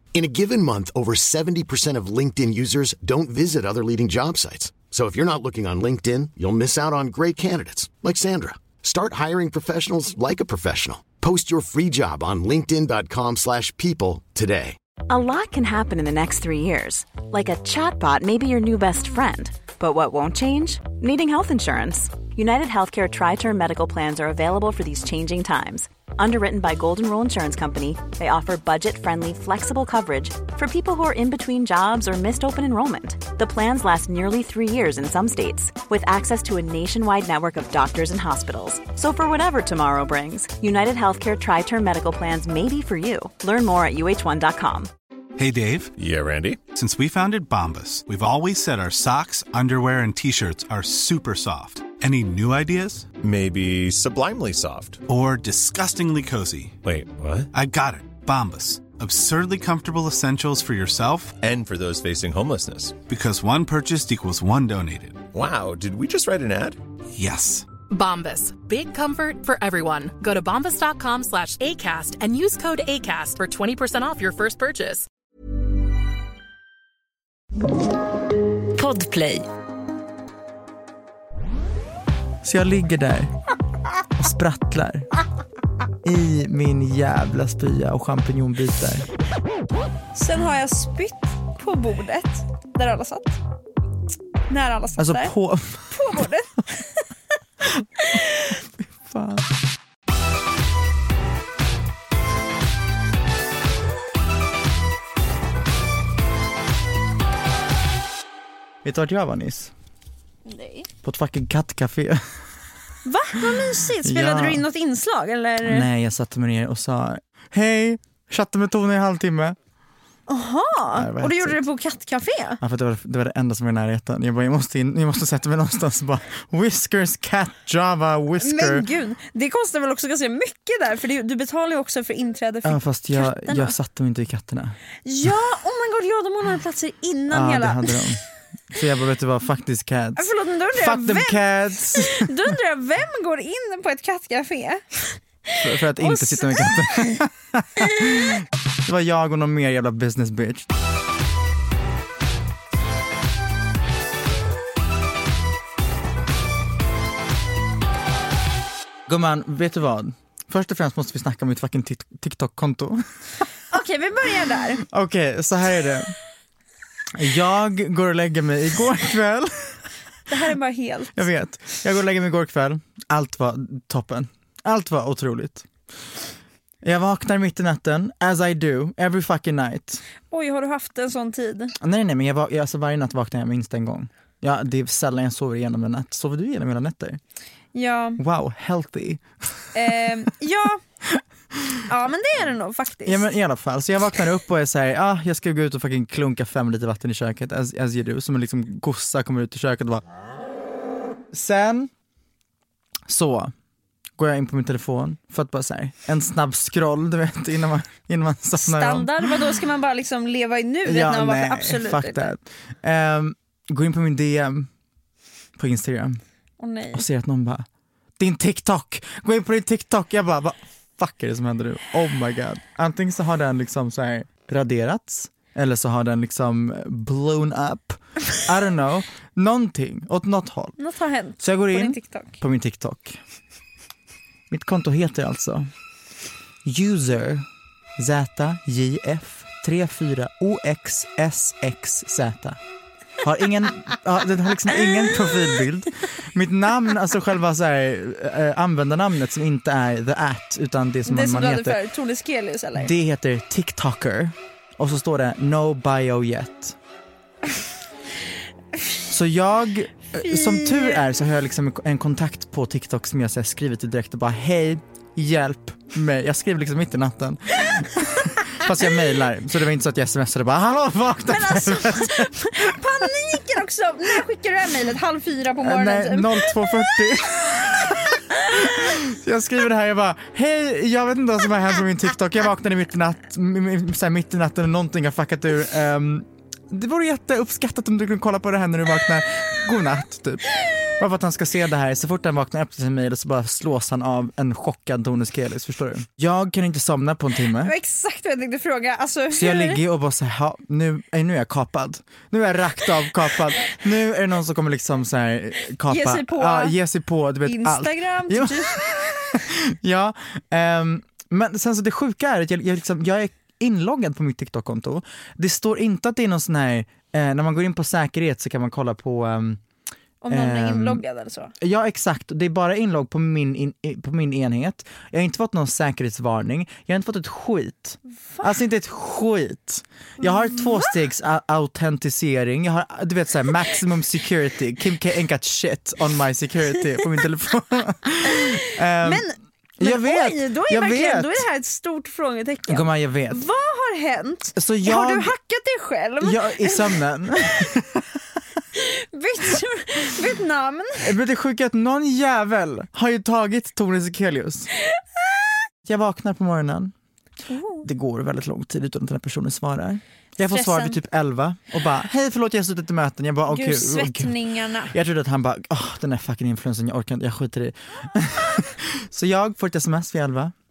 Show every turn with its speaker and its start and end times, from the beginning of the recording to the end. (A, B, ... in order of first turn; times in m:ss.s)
0:00.2-0:14.8 A
0:15.1-0:44.9 B
0:45.4-0:45.9 C
0:46.0-0:46.6 D
0:46.7-0:53.1 C
0:53.2-0:55.0 D
0:55.1-0:56.8 C
0:56.8-0:57.5 D
0:57.5-1:01.4 C
1:01.4-1:03.0 D
1:03.1-1:05.2 C
1:05.3-1:06.8 D
1:07.1-1:07.7 C
1:07.9-1:15.1 E
1:18.8-1:19.3 B
1:22.4-1:23.3 F
1:24.2-1:25.1 F
1:26.0-1:29.0 F
1:30.2-1:33.4 G
1:34.5-1:35.3 G
1:35.0-1:36.0 F
1:35.9-1:37.0 G
1:38.0-1:38.5 G
1:38.8-1:39.4 F
1:48.8-1:49.7 F
1:50.5-1:50.9 G
1:51.0-1:52.3 F
1:53.0-1:55.9 G
1:54.0-1:54.6 F
1:55.6-1:59.6 F
2:00.3-2:02.6 G
2:00.9-2:01.6 F
2:02.6-2:08.8 F
2:08.4-2:13.8 G
2:12.6-2:14.8 F
2:15.0-2:18.0 G
2:17.3-2:22.3 F
2:20.2-2:27.2 G
2:25.6-2:30.7 F
2:39.1-2:43.0 F
2:43.7-2:44.8 G
2:44.8-2:46.2 F
2:47.1-2:49.8 F
2:50.3-2:51.3 G
2:51.2-2:55.7 F
2:56.8-3:00.0 F
3:00.3-3:01.7 G
3:01.8-3:07.2 F
3:07.8-3:08.2 G
3:08.2-3:09.7 F
3:09.8-3:10.8 G
3:11.9-3:13.3 G
3:13.0-3:20.0 F
3:21.3-3:21.9 F
3:23.1-3:23.5 F
3:24.2-3:29.5 F
3:28.6-3:32.4 G
3:30.8-3:34.7 F
3:35.6-3:36.2 F
3:36.6-3:37.1 G
3:36.9-3:37.7 F
3:38.2-3:50.8 F
3:50.8-3:52.4 G
3:51.4-3:53.2 F
3:54.5-3:55.7 F
3:56.6-3:57.5 F
3:58.0-4:02.6 F
4:03.2-4:11.8 F
4:11.1-4:12.9 G
4:12.8-4:16.8 F
4:19.1-4:33.1 F
4:20.2-4:21.0 G
4:31.3-4:36.6 G
4:35.6-4:57.7 F
4:57.6-4:59.8 G
4:59.3-5:19.6 F
5:05.9-5:06.8 G
5:07.4-5:08.8 G
5:20.2-5:21.5 G
5:20.3-5:21.0 F
5:21.6-5:39.3 F
5:28.3-5:28.6 G
5:30.2-5:30.9 G
5:39.0-5:47.0 G
5:39.8-5:41.4 F
5:42.7-5:43.4 F
5:44.6-5:45.3 F
5:46.2-5:48.2 F
5:48.8-5:51.1 G
5:51.0-5:54.7 F
5:55.8-5:56.9 F
5:57.5-5:57.9 G
5:57.8-6:04.3 F
6:00.5-6:01.0 G
6:03.5-6:04.9 G
6:04.9-6:10.5 F